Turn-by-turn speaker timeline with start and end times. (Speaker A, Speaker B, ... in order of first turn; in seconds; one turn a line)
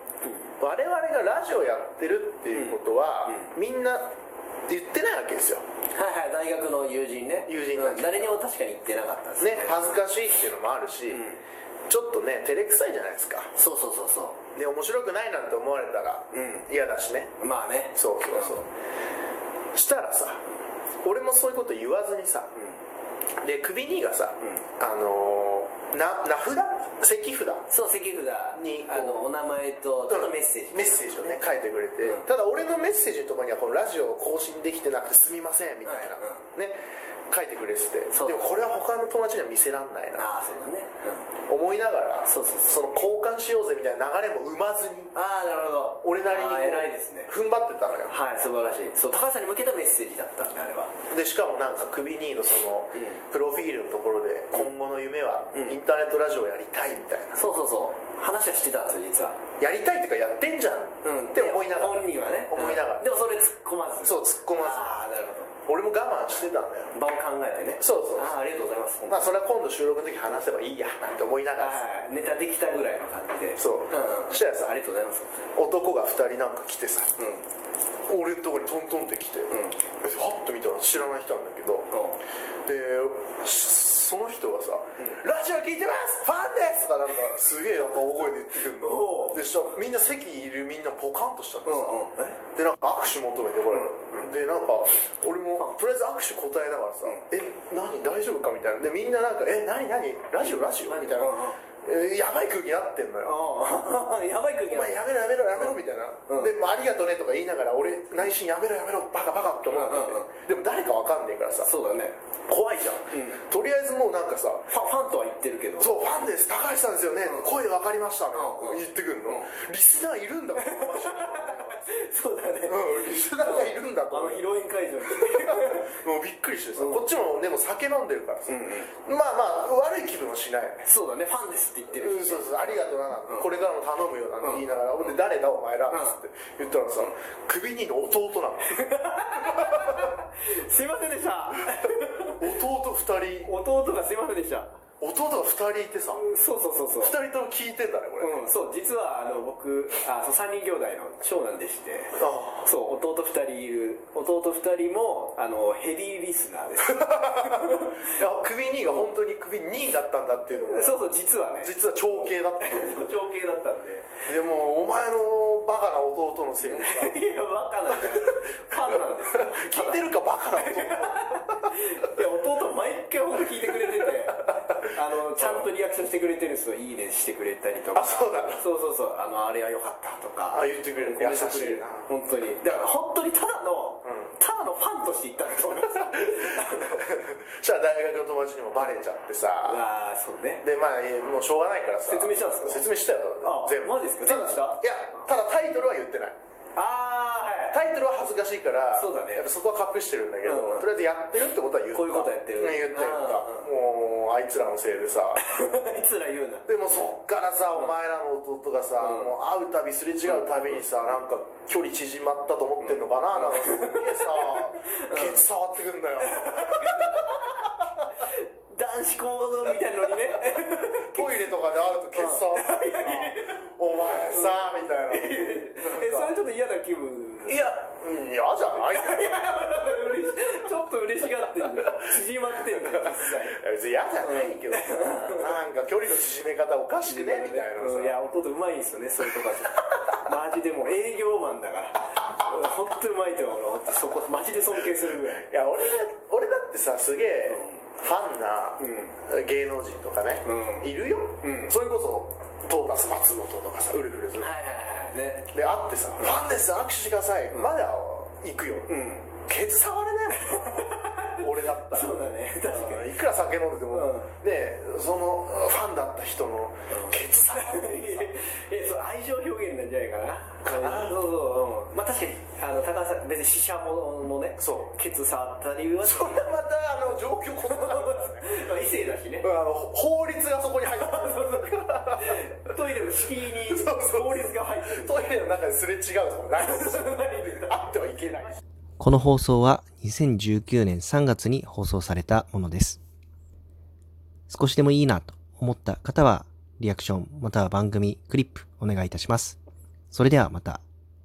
Speaker A: 0.6-4.1
Speaker B: 2.5-3.5
Speaker A: 4.7-5.6
Speaker B: 6.0-10.0
Speaker A: 7.5-8.4
Speaker A: 9.4-11.3
Speaker B: 11.1-11.4
Speaker A: 11.9-13.5
Speaker B: 13.6-14.4
Speaker A: 14.6-17.3
Speaker B: 16.3-16.7
Speaker B: 17.4-18.6
Speaker A: 17.9-18.7
Speaker A: 19.7-20.4
Speaker A: 21.0-22.5
Speaker A: 23.4-27.7
Speaker B: 27.7-31.4
Speaker A: 28.6-29.3
Speaker A: 30.1-36.8
Speaker B: 32.0-32.3
Speaker B: 35.9-36.4
Speaker A: 37.3-40.3
Speaker B: 38.1-38.5
Speaker B: 40.2-41.2
Speaker A: 41.5-45.1
Speaker B: 42.3-43.0
Speaker B: 45.1-47.3
Speaker A: 46.0-48.1
Speaker B: 48.1-50.9
Speaker A: 51.1-57.4
Speaker B: 52.9-53.2
Speaker B: 57.4-59.4
Speaker A: 59.6-63.1
Speaker B: 61.0-65.5
Speaker A: 64.0-65.1
Speaker A: 65.7-66.9
Speaker B: 66.9-69.4
Speaker A: 67.7-68.3
Speaker A: 69.1-71.8
Speaker B: 71.6-75.4
Speaker A: 73.6-74.8
Speaker A: 75.6-77.2
Speaker B: 77.2-77.4
Speaker A: 78.1-81.9
Speaker B: 79.5-79.8
Speaker B: 81.9-82.2
Speaker A: 82.7-103.4
Speaker B: 88.7-89.5
Speaker B: 91.7-92.4
Speaker B: 93.7-94.3
Speaker B: 100.4-101.6
Speaker B: 103.2-105.0
Speaker A: 104.7-111.7
Speaker B: 105.5-106.5
Speaker B: 109.7-110.3
Speaker B: 111.6-112.2
Speaker A: 112.5-114.7
Speaker B: 113.1-113.4
Speaker B: 114.7-116.1
Speaker A: 115.8-121.9
Speaker B: 118.3-119.5
Speaker B: 120.6-126.0
Speaker A: 122.7-124.5
Speaker A: 125.0-130.9
Speaker B: 126.8-127.0
Speaker B: 128.5-128.9
Speaker B: 130.8-132.7
Speaker A: 131.9-138.8
Speaker B: 134.4-135.2
Speaker B: 135.9-136.2
Speaker B: 138.7-142.5
Speaker A: 139.4-140.1
Speaker A: 142.4-143.5
Speaker B: 143.4-144.8
Speaker A: 145.0-146.3
Speaker B: 146.2-147.2
Speaker A: 147.0-148.5
Speaker B: 148.2-158.1
Speaker A: 152.2-152.7
Speaker A: 156.8-163.1
Speaker B: 160.5-164.1
Speaker A: 164.3-167.3
Speaker B: 166.6-187.0
Speaker A: 167.9-168.2
Speaker A: 168.8-171.7
Speaker A: 175.4-175.7
Speaker A: 177.9-178.6
Speaker A: 180.5-182.1
Speaker A: 185.9-189.8
Speaker B: 189.6-190.6
Speaker A: 190.6-196.4
Speaker B: 192.1-192.9
Speaker B: 193.4-194.8
Speaker B: 196.8-197.8
Speaker A: 197.7-205.4
Speaker B: 198.9-199.5
Speaker B: 200.4-200.9
Speaker B: 201.9-203.7
Speaker B: 205.4-206.8
Speaker A: 206.7-217.5
Speaker B: 209.0-209.3
Speaker B: 212.8-215.4
Speaker B: 216.2-221.6
Speaker A: 220.9-226.3
Speaker B: 222.1-227.7
Speaker A: 227.5-229.4
Speaker B: 228.8-233.6
Speaker A: 232.7-238.2
Speaker B: 234.2-235.6
Speaker B: 237.0-245.5
Speaker A: 245.3-254.5
Speaker B: 247.5-247.8
Speaker B: 248.8-249.1
Speaker B: 250.4-250.9
Speaker B: 251.4-251.7
Speaker B: 254.4-255.5
Speaker A: 255.5-260.9
Speaker B: 258.9-259.3
Speaker B: 260.3-263.2
Speaker A: 261.4-268.3
Speaker B: 263.9-264.3
Speaker B: 266.9-276.6
Speaker A: 270.6-271.2
Speaker A: 274.6-274.9
Speaker A: 276.0-278.6
Speaker B: 277.6-279.5
Speaker A: 279.4-282.5
Speaker B: 280.9-285.4
Speaker A: 283.6-287.1
Speaker B: 286.6-287.8
Speaker A: 287.7-288.6
Speaker C: 289.0-293.0
Speaker C: 294.5-299.6
Speaker C: 300.1-300.8